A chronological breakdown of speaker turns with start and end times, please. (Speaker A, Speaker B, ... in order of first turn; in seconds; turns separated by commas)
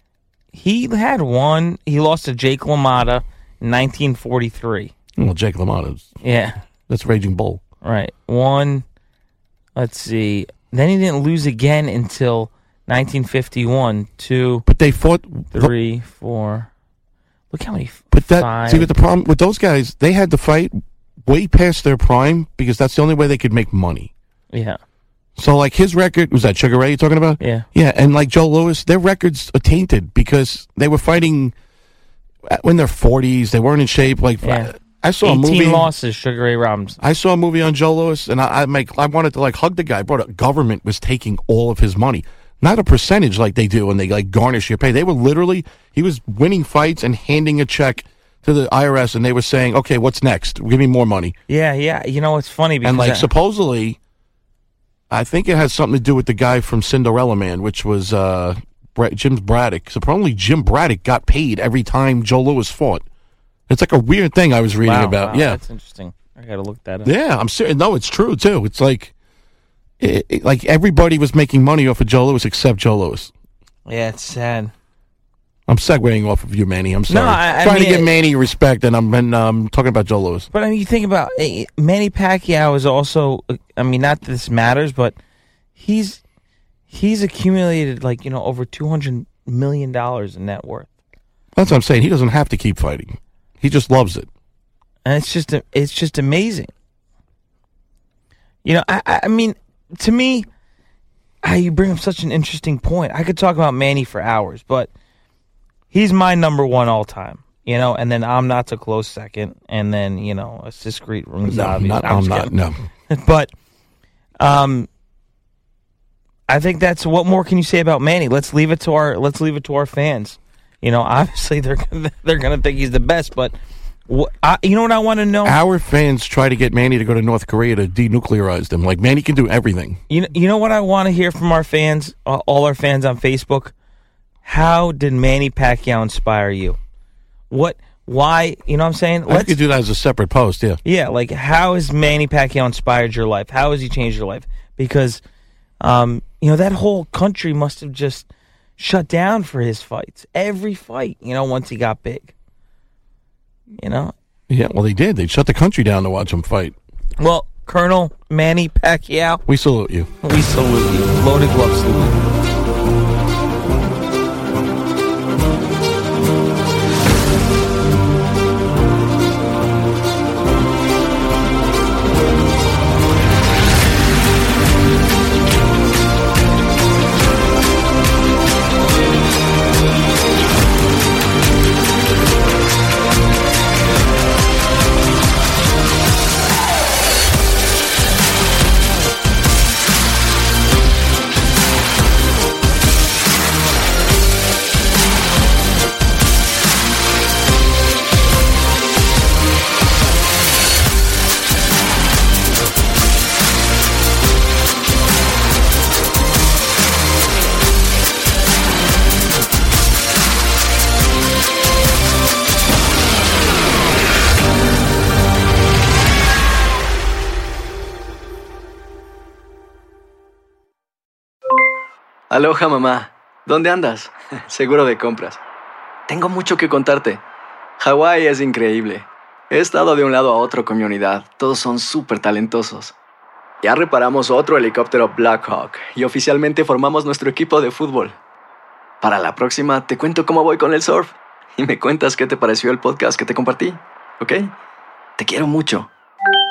Speaker A: 0.5-4.9, Speaker B: 5.2-6.1, Speaker A: 6.2-6.6, Speaker B: 6.9-7.6, Speaker A: 7.8-8.8, Speaker A: 9.8-14.7, Speaker B: 14.7-15.7, Speaker A: 15.5-16.7, Speaker A: 17.5-18.9, Speaker B: 18.1-24.1, Speaker A: 24.5-24.8, Speaker B: 25.4-31.5, Speaker A: 27.4-27.6, Speaker B: 32.5-35.9, Speaker A: 34.4-34.7, Speaker A: 35.2-37.0, Speaker B: 37.0-51.3, Speaker A: 51.5-53.3, Speaker B: 52.8-54.0, Speaker B: 55.1-63.0, Speaker B: 63.7-65.6, Speaker A: 64.8-67.1, Speaker B: 67.0-69.1, Speaker B: 70.0-73.3, Speaker A: 73.9-74.7, Speaker B: 75.7-80.5, Speaker A: 77.1-78.1, Speaker A: 80.5-85.2, Speaker A: 85.8-86.2, Speaker A: 86.9-90.9, Speaker B: 91.5-94.3, Speaker A: 95.0-96.7, Speaker A: 98.6-100.5, Speaker A: 101.4-104.9, Speaker A: 105.9-112.5, Speaker B: 111.4-112.8, Speaker A: 113.1-113.5, Speaker A: 114.4-114.9, Speaker A: 116.5-123.5, Speaker A: 124.1-125.5, Speaker B: 125.4-130.0, Speaker A: 130.1-133.7, Speaker A: 134.4-136.8, Speaker A: 137.5-139.5, Speaker B: 139.3-140.8, Speaker A: 140.8-145.2, Speaker A: 145.8-148.2, Speaker A: 148.8-152.3, Speaker A: 153.8-154.1, Speaker B: 154.5-156.8, Speaker A: 157.2-159.4, Speaker B: 159.5-160.1, Speaker A: 160.2-162.2, Speaker C: 222.3-225.4, Speaker C: 226.1-227.2, Speaker C: 227.8-232.9, Speaker C: 233.6-238.2, Speaker C: 239.0-244.5, Speaker C: 245.2-245.9